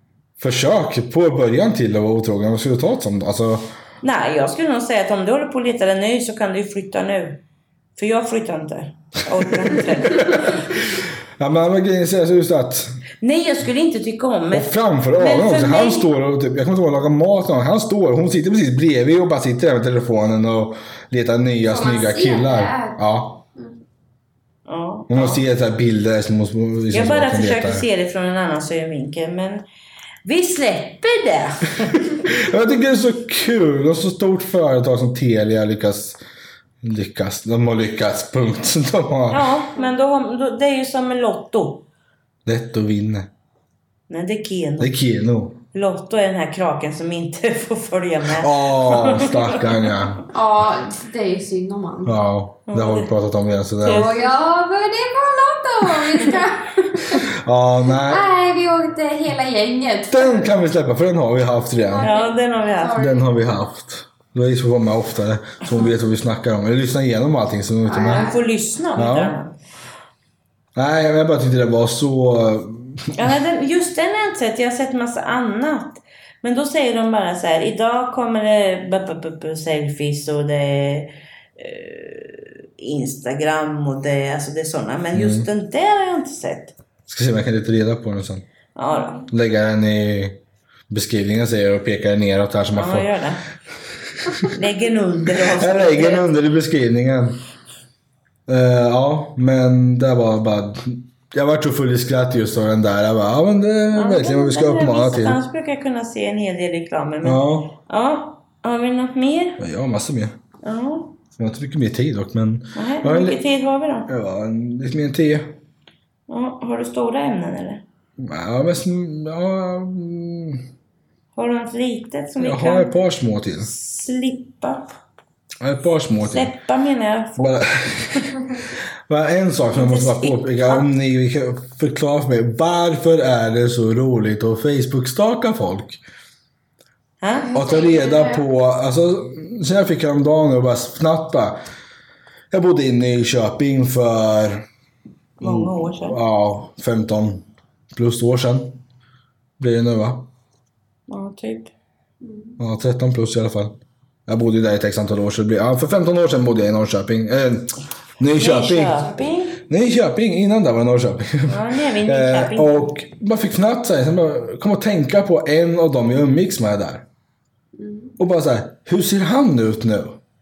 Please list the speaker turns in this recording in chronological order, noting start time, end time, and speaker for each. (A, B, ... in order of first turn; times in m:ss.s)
0:00.4-0:03.7 A
0:04.0-0:07.4 B
0:08.0-0:10.8 B
0:09.6-0:13.0 A
0:13.2-0:16.1 B
0:14.5-0:23.4 A
0:21.7-0:23.0 C
0:24.7-0:25.4 B
0:25.1-0:27.8 A
0:26.9-0:29.6 B
0:30.2-0:32.2 B
0:32.0-0:36.2 A
0:36.8-0:39.6 A
0:39.3-0:41.8 B
0:42.5-0:43.3 A
0:44.1-0:44.9 B
0:44.8-0:45.6 A
0:45.7-0:50.0 B
0:48.4-0:50.2 A
0:50.3-0:52.2 C
0:52.1-0:54.2 A
0:52.7-0:53.1 B
0:53.8-0:54.3 B
0:53.9-0:57.3 C
0:57.0-0:58.3 A
0:58.1-1:00.5 C
1:00.1-1:02.1 A
1:01.9-1:03.2 C
1:02.0-1:03.0 B
1:02.9-1:08.3 A
1:07.9-1:08.4 C
1:08.0-1:09.5 B
1:09.0-1:09.4 A
1:10.8-1:13.4 A
1:13.2-1:26.8 B
1:25.1-1:25.5 A
1:27.1-1:28.4 A
1:28.8-1:29.3 B
1:29.3-1:30.4 A
1:30.9-1:33.1 A
1:32.7-1:33.4 B
1:34.2-1:34.5 A
1:34.4-1:36.3 B
1:35.4-1:37.4 A
1:38.5-1:45.4 A
1:43.9-1:49.6 B
1:47.2-1:47.7 A
1:49.6-1:50.4 A
1:50.6-1:51.2 B
1:51.4-1:53.4 A
1:52.8-1:54.1 B
1:54.1-1:55.6 A
1:56.3-1:57.8 B
1:58.2-2:00.6 A
2:01.4-2:02.9 B
2:02.4-2:03.7 A
2:03.6-2:04.9 B
2:05.6-2:06.5 A
2:06.2-2:07.6 B
2:07.4-2:16.0 A
2:09.7-2:10.9 B
2:17.2-2:17.6 B
2:17.4-2:18.4 C
2:17.5-2:21.6 A
2:22.5-2:24.6 A
2:25.4-2:26.2 B
2:25.4-2:28.8 A
2:29.6-2:30.3 A
2:31.1-2:31.7 B
2:32.2-2:32.6 C
2:32.6-2:33.8 A
2:34.3-2:47.0 A
2:38.4-2:39.6 B
2:41.5-2:42.9 B
2:47.8-2:48.1 C
2:48.2-2:50.2 A